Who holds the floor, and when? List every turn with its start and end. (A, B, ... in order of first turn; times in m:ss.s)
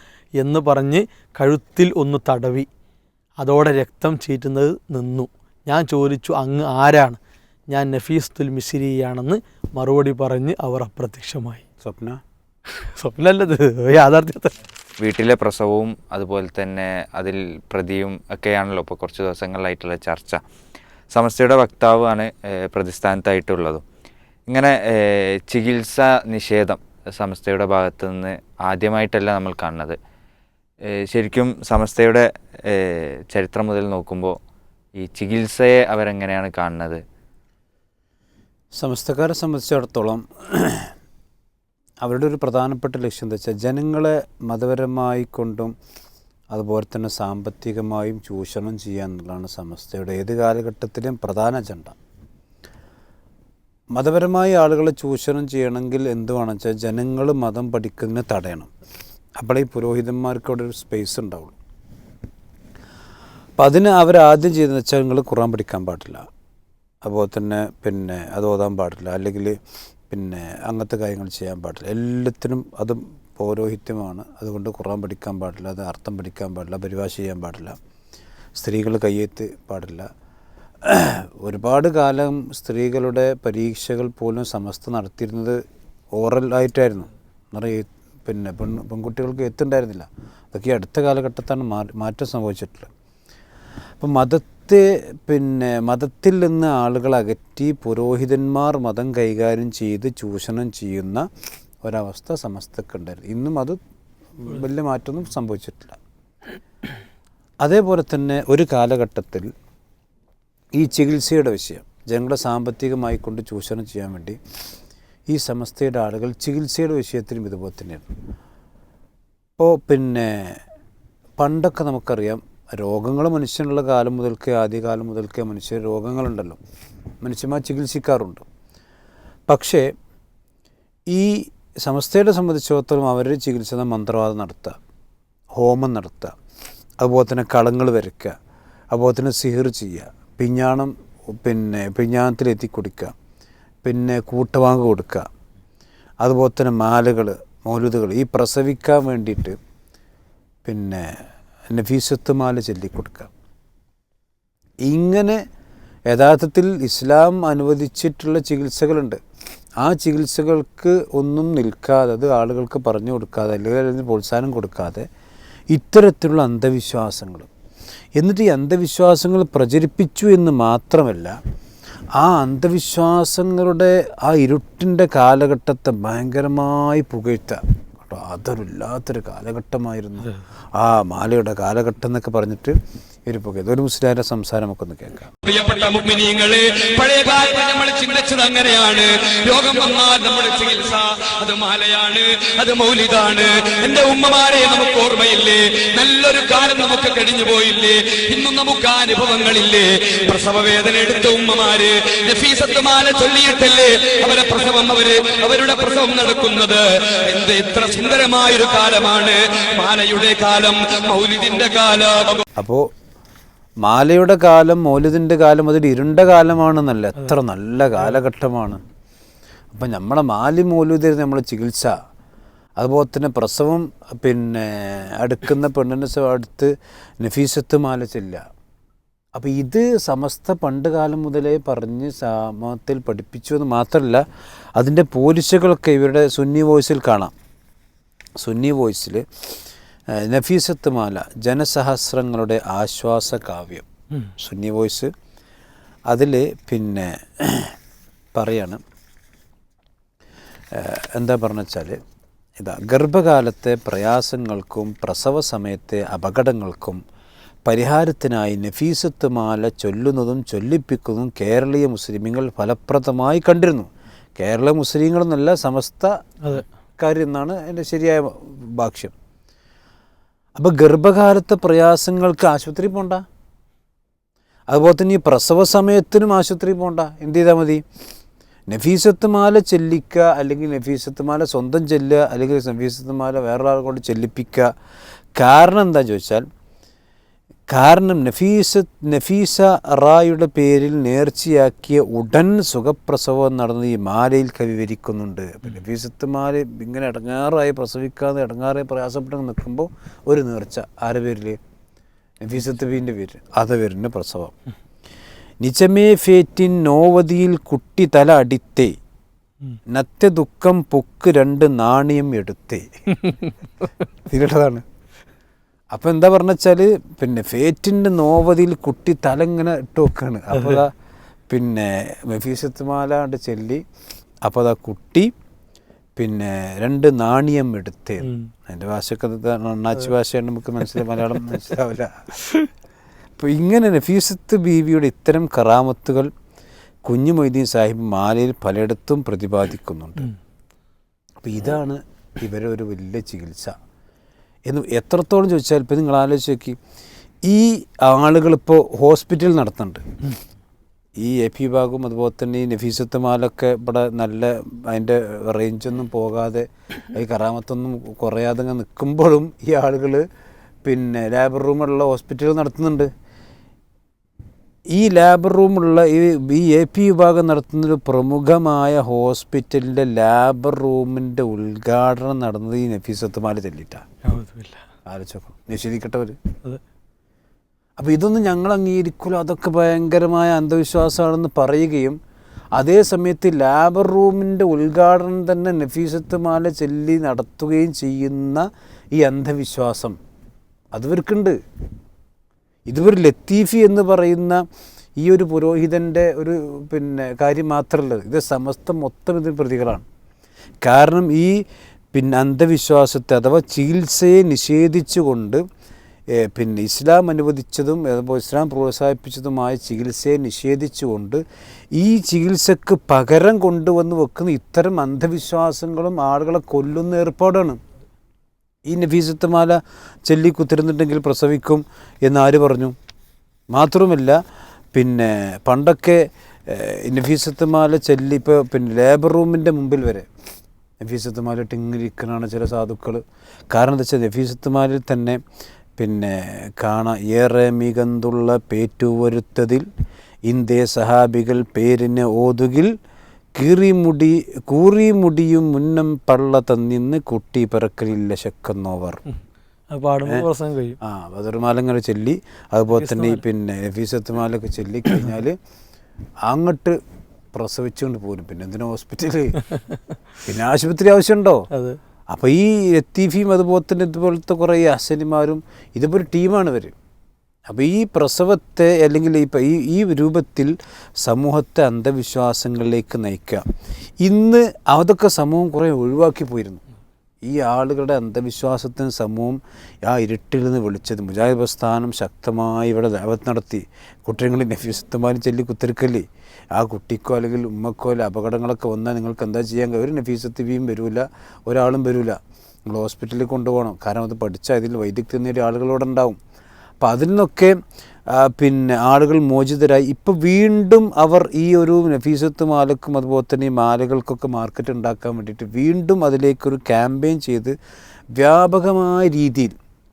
0:00.4-0:02.7 A
0:03.4-0:07.2 A
0:07.7-0:11.6 A
0:11.8-0:12.2 B
0:12.8-0:14.5 A
0:15.0-0:20.4 C
0:21.1-0:23.8 C
0:24.5-0:30.0 C
0:30.9-0:34.4 C
0:35.0-0:37.0 C
0:38.8-0:40.9 B
0:42.0-0:45.7 B
0:46.5-0:52.0 B
0:53.9-0:58.7 B
0:59.4-1:01.6 B
1:03.6-1:06.3 B
1:07.0-1:09.6 B
1:10.1-1:17.8 B
1:18.6-1:20.1 B
1:20.8-1:25.6 B
1:26.2-1:32.9 B
1:34.0-1:41.3 B
1:41.8-1:43.8 B
1:44.4-1:46.0 B
1:47.6-1:49.5 B
1:50.8-1:54.4 B
1:55.3-1:58.1 B
1:59.6-2:00.6 B
2:01.4-2:06.6 B
2:07.2-2:08.4 B
2:09.5-2:09.9 B
2:11.1-2:14.8 B
2:15.6-2:16.4 B
2:17.0-2:18.4 B
2:18.9-2:23.1 B
2:23.8-2:25.3 B
2:26.2-2:29.6 B
2:30.6-2:33.3 B
2:34.8-2:35.4 B
2:36.1-2:39.2 B
2:39.8-2:45.0 B
2:45.7-2:47.5 B
2:48.2-2:51.4 B
2:52.2-3:05.3 B
3:05.4-3:32.4 D
3:32.6-3:32.9 B
3:33.8-3:38.8 B
3:39.7-3:42.0 B
3:42.8-3:48.4 B
3:49.4-3:54.2 B
3:54.8-3:57.3 B
3:58.4-3:59.6 B
4:00.1-4:03.9 B
4:04.4-4:05.1 B
4:06.1-4:07.8 B
4:08.3-4:08.8 B
4:10.7-4:12.0 B
4:12.6-4:17.0 B
4:17.6-4:26.1 B
4:27.0-4:29.1 B
4:30.6-4:33.2 B
4:34.7-4:37.8 B
4:38.7-4:44.7 B
4:45.4-4:46.5 B
4:47.7-5:01.6 B
5:02.4-5:04.5 B
5:05.6-5:09.0 B
5:09.9-5:13.2 B
5:13.2-5:13.5 A
5:14.2-5:14.8 B
5:15.9-5:20.9 B
5:21.5-5:23.8 B
5:24.4-5:25.3 B
5:26.2-5:32.4 B
5:28.2-5:28.5 A
5:33.4-5:36.3 B
5:37.0-5:40.3 B
5:41.4-5:43.8 B
5:44.7-5:46.8 B
5:47.4-5:50.0 B
5:51.2-6:00.2 B
6:00.8-6:03.1 B
6:04.9-6:14.1 B
6:14.2-6:14.8 A
6:15.1-6:16.4 B
6:18.0-6:22.2 B
6:22.8-6:30.2 B
6:30.9-6:31.6 B
6:32.9-6:34.6 B
6:35.2-6:40.0 B
6:40.8-6:41.6 B
6:42.1-6:45.6 B
6:46.3-6:51.4 B
6:52.0-6:57.8 B
6:58.9-7:03.0 B
7:03.7-7:04.4 B
7:04.9-7:10.3 B
7:11.0-7:15.4 B
7:16.0-7:19.9 B
7:20.5-7:22.9 B
7:23.6-7:29.2 B
7:29.9-7:31.0 A
7:31.0-7:35.6 B
7:33.0-7:33.4 A
7:36.4-7:37.0 B
7:37.5-7:39.6 B
7:40.4-7:41.7 B
7:41.7-7:42.0 A
7:42.3-7:47.0 B
7:47.7-7:53.7 B
7:54.2-7:56.8 B
7:57.4-8:16.4 B
8:17.0-8:17.8 B
8:18.3-8:27.8 B
8:28.3-8:29.8 B